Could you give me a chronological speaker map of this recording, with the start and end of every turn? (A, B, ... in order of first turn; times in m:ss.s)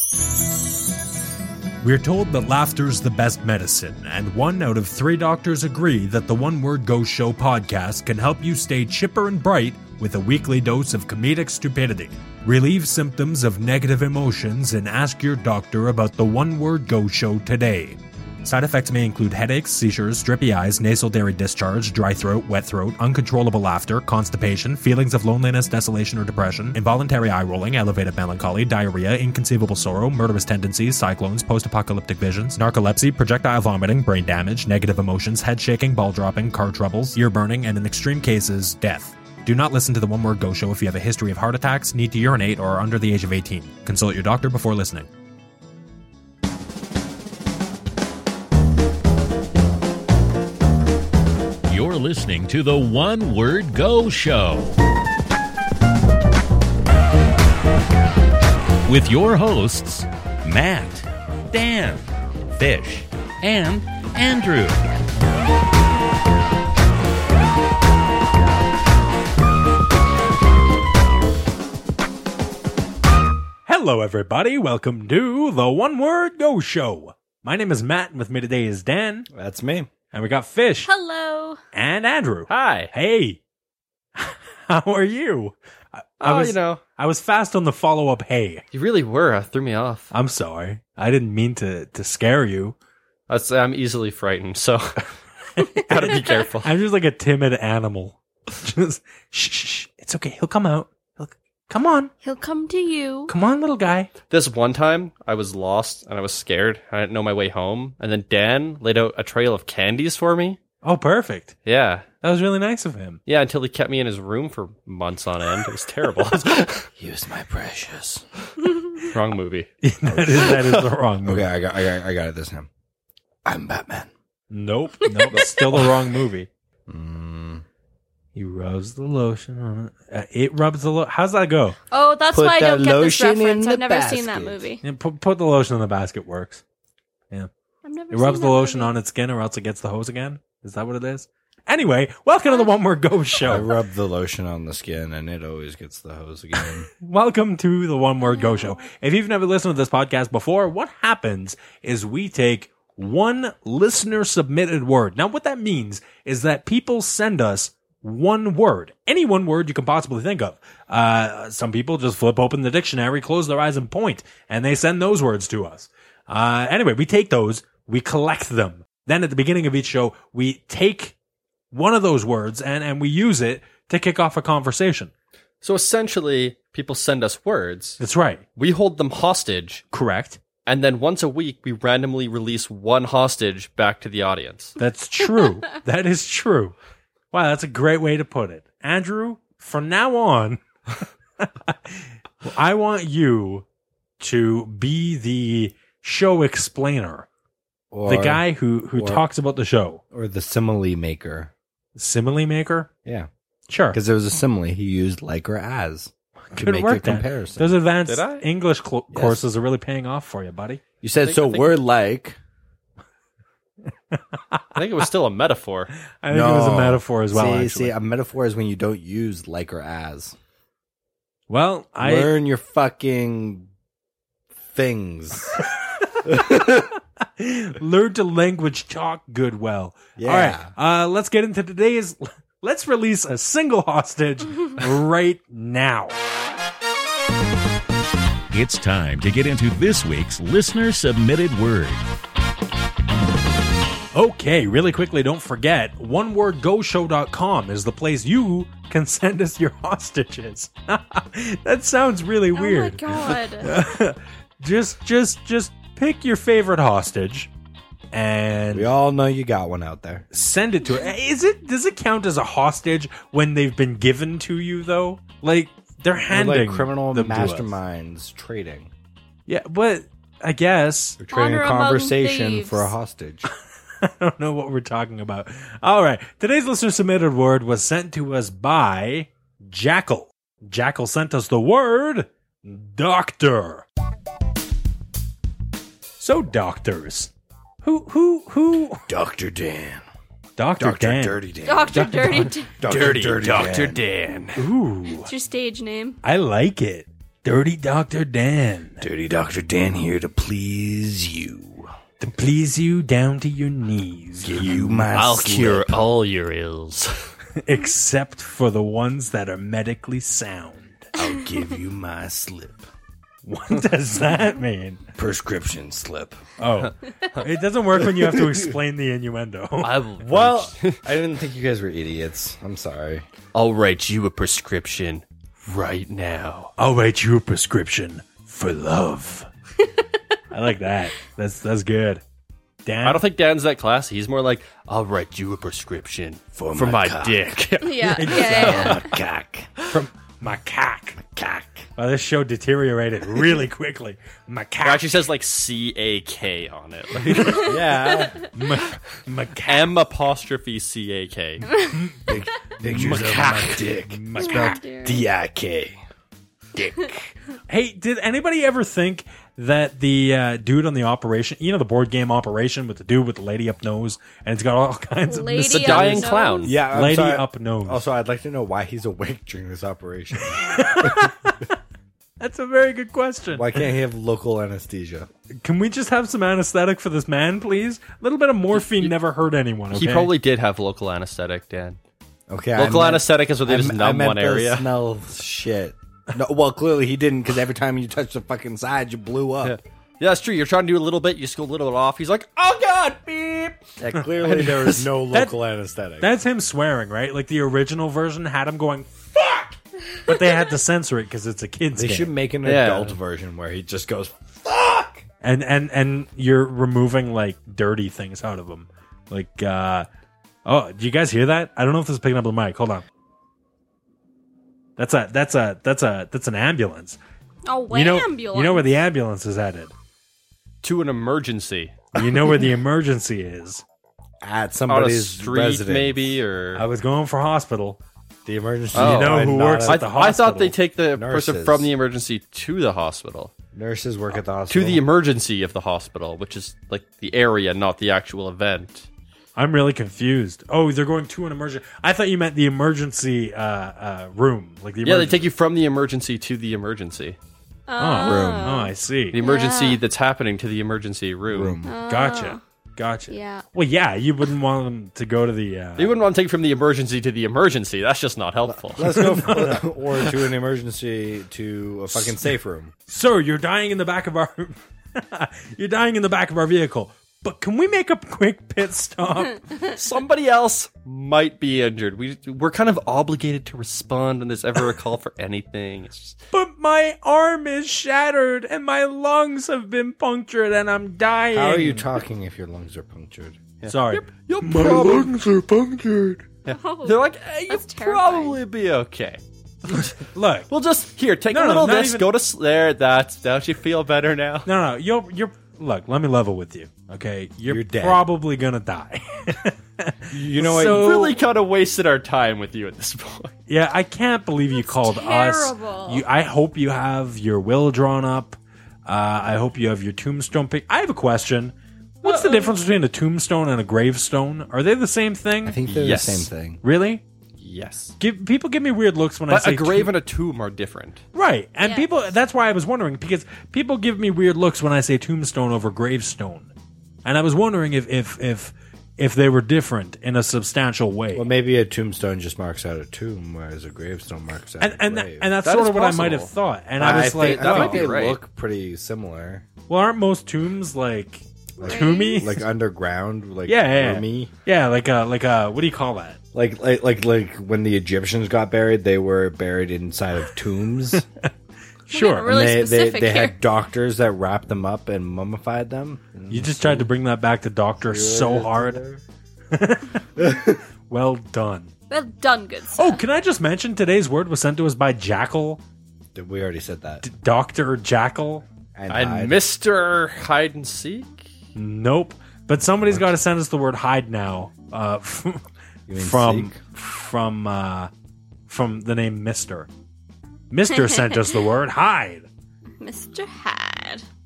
0:01.8-0:45.1 A
0:51.7-0:54.8 B
0:58.8-1:04.9 B
1:13.6-1:19.3 A
1:19.3-1:19.9 C
1:20.1-1:20.9 A
1:20.8-1:21.6 D
1:21.7-1:23.4 A
1:22.5-1:22.9 E
1:24.2-1:28.6 A
1:26.2-1:26.8 E
1:28.7-1:30.1 E
1:30.1-1:32.8 A
1:33.3-1:35.0 E
1:35.6-1:42.1 A
1:35.7-1:36.7 E
1:42.2-1:43.3 D
1:43.3-1:44.1 A
1:44.3-1:50.6 E
1:50.8-1:51.5 A
1:51.6-1:52.1 E
1:52.2-1:53.2 A
1:53.2-1:56.9 E
1:57.0-1:58.2 C
1:59.0-1:59.7 E
1:59.8-2:01.5 A
2:00.2-2:00.6 C
2:01.2-2:02.7 C
2:03.4-2:04.1 C
2:04.5-2:06.5 A
2:05.3-2:05.9 C
2:06.9-2:07.6 C
2:08.3-2:11.8 A
2:11.9-2:14.8 D
2:12.3-2:14.7 C
2:14.8-2:16.6 A
2:17.8-2:18.9 D
2:18.1-2:23.7 A
2:23.4-2:26.9 C
2:27.0-2:51.1 A
2:28.3-2:28.7 D
2:51.7-2:55.1 A
2:55.6-2:58.0 E
2:58.0-2:58.4 A
2:58.6-2:59.8 E
2:59.9-3:00.4 A
3:00.6-3:04.8 E
3:04.8-3:06.7 A
3:07.3-3:10.6 A
3:11.4-3:13.6 A
3:14.2-3:17.3 A
3:17.9-3:19.2 C
3:18.1-3:20.0 A
3:20.1-3:21.5 C
3:22.0-3:22.9 A
3:23.7-3:24.0 A
3:23.9-3:27.7 C
3:26.5-3:30.8 A
3:28.0-3:28.4 E
3:29.1-3:29.4 C
3:31.0-3:32.4 C
3:31.2-3:31.7 E
3:34.1-3:34.6 A
3:34.7-3:35.9 E
3:36.2-3:38.0 A
3:36.3-3:40.3 C
3:41.5-3:42.3 A
3:42.0-3:43.7 C
3:44.7-3:45.6 C
3:46.2-3:46.9 C
3:46.3-3:56.1 A
3:50.2-3:50.7 C
3:58.5-4:02.0 B
4:04.1-4:17.5 A
4:12.5-4:13.7 D
4:18.1-4:18.9 A
4:18.7-4:20.2 C
4:20.3-4:27.7 A
4:26.3-4:28.9 C
4:29.5-4:31.2 A
4:31.2-4:33.4 C
4:31.3-4:32.9 D
4:34.0-4:43.8 A
4:46.2-4:47.3 A
4:47.8-4:49.1 A
4:49.1-4:50.0 C
4:50.6-4:51.4 A
4:50.8-4:54.0 C
4:51.6-4:52.7 D
4:51.9-4:52.5 A
4:52.8-4:54.6 E
4:54.6-4:55.3 A
4:55.2-4:56.2 D
4:56.2-4:59.0 A
4:59.0-5:01.9 C
5:02.2-5:05.1 A
5:04.4-5:06.1 C
5:04.6-5:07.2 E
5:07.6-5:11.1 A
5:11.1-5:12.8 C
5:13.4-5:15.0 A
5:15.1-5:16.4 C
5:16.6-5:20.0 A
5:18.0-5:18.7 C
5:19.8-5:21.0 E
5:20.2-5:23.3 C
5:23.5-5:26.7 E
5:26.8-5:29.5 A
5:30.5-5:32.2 A
5:32.8-5:33.2 A
5:33.0-5:39.1 E
5:36.6-5:37.5 C
5:37.8-5:39.1 D
5:38.1-5:39.0 A
5:38.4-5:39.9 C
5:39.9-5:41.2 A
5:41.2-5:41.9 C
5:42.0-5:45.1 A
5:44.8-5:47.8 E
5:47.3-5:47.6 A
5:47.4-5:48.4 C
5:48.5-5:49.9 A
5:49.6-5:51.7 E
5:51.7-5:54.8 A
5:52.2-5:56.0 C
5:54.4-5:55.2 D
5:56.8-5:57.3 C
5:57.7-6:06.4 A
6:05.2-6:06.8 D
6:05.7-6:06.8 E
6:06.6-6:11.3 C
6:06.9-6:08.0 A
6:10.6-6:11.6 A
6:12.4-6:13.8 A
6:13.5-6:15.3 C
6:15.6-6:20.3 A
6:18.8-6:19.1 E
6:19.9-6:22.0 E
6:22.5-6:29.8 C
6:22.8-6:24.9 E
6:29.6-6:33.9 E
6:34.0-6:36.3 C
6:34.3-6:35.6 A
6:36.2-6:39.7 A
6:40.2-6:42.3 A
6:41.9-6:45.2 C
6:42.6-6:43.2 E
6:45.4-6:50.1 A
6:50.6-6:53.0 A
6:55.0-6:57.2 A
6:57.6-6:58.9 D
6:57.9-6:59.9 A
7:00.8-7:02.1 E
7:02.1-7:03.8 A
7:04.4-7:06.4 C
7:04.9-7:06.8 E
7:06.7-7:08.0 A
7:08.4-7:10.1 C
7:08.9-7:10.7 A
7:08.9-7:13.5 E
7:11.1-7:11.9 C
7:13.7-7:15.0 C
7:14.7-7:19.1 E
7:19.6-7:25.4 A
7:25.0-7:27.4 E
7:27.9-7:30.0 D
7:28.0-7:29.4 A
7:28.1-7:28.8 C
7:29.3-7:31.8 E
7:31.5-7:31.9 C
7:31.8-7:32.6 D
7:32.0-7:36.1 A
7:33.3-7:33.6 D
7:36.0-7:39.3 E
7:38.6-7:42.9 C
7:39.1-7:39.8 A
7:43.1-7:49.6 A
7:49.9-7:56.4 E
7:56.5-8:02.1 A
8:01.5-8:03.6 C
8:03.8-8:05.4 E
8:03.9-8:05.4 A
8:04.7-8:06.4 C
8:06.6-8:09.4 E
8:06.7-8:08.6 D
8:09.9-8:10.7 A
8:10.7-8:14.7 E
8:11.5-8:12.3 A
8:14.6-8:21.4 A
8:17.6-8:18.2 C
8:20.3-8:21.1 C
8:20.5-8:23.5 E
8:23.7-8:35.8 A
8:24.8-8:26.2 D
8:32.2-8:32.7 D
8:35.6-8:36.8 C
8:35.9-8:36.5 E
8:36.8-8:37.2 A
8:37.6-8:38.2 E
8:38.2-8:40.1 A
8:39.5-8:41.2 E
8:41.3-8:46.7 A
8:41.8-8:42.3 D
8:47.2-8:51.5 A
8:51.3-8:55.5 C
8:54.8-8:58.0 A
8:55.6-8:56.5 E
8:57.0-8:59.6 C
8:57.3-8:58.4 E
8:59.9-9:02.6 A
9:01.8-9:04.5 C
9:01.8-9:02.4 D
9:03.6-9:06.4 A
9:06.5-9:11.2 C
9:11.2-9:11.5 A
9:12.1-9:12.6 A
9:12.1-9:13.6 D
9:12.4-9:17.1 C
9:16.5-9:19.0 A
9:18.0-9:19.2 C
9:19.7-9:21.9 A
9:20.4-9:20.8 C
9:22.1-9:23.2 D
9:22.9-9:25.8 A
9:26.3-9:27.2 C
9:27.2-9:28.6 A
9:28.9-9:29.6 C
9:29.1-9:31.4 E
9:31.7-9:38.1 A
9:36.1-9:36.8 C
9:38.7-9:39.9 A
9:40.7-9:42.5 A
9:40.9-9:41.6 D
9:43.0-9:44.2 D